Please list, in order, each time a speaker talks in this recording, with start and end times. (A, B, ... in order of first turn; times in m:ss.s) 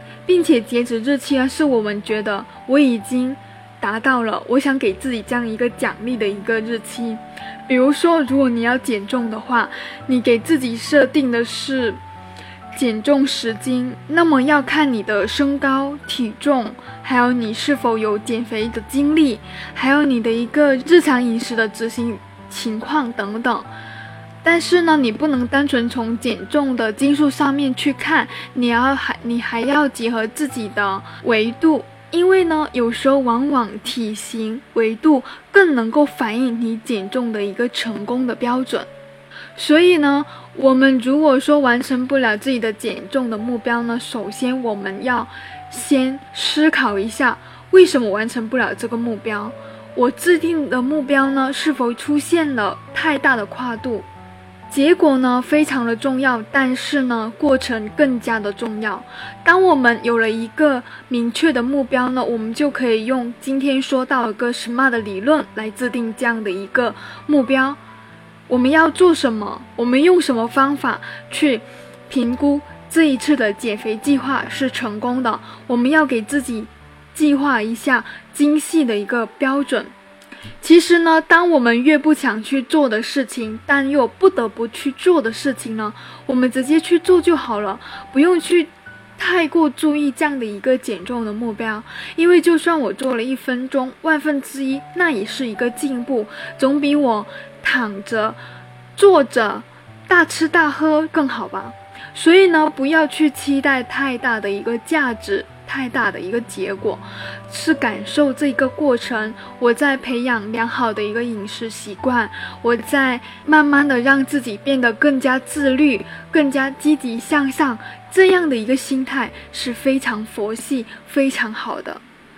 0:00.2-0:12.0 A
0:12.7-0:23.7 A
0:24.4-0:38.9 A
0:39.6-0:54.1 A
0:54.7-1:07.8 A
1:08.5-1:19.9 A
1:20.6-1:38.4 A
1:39.0-2:02.0 A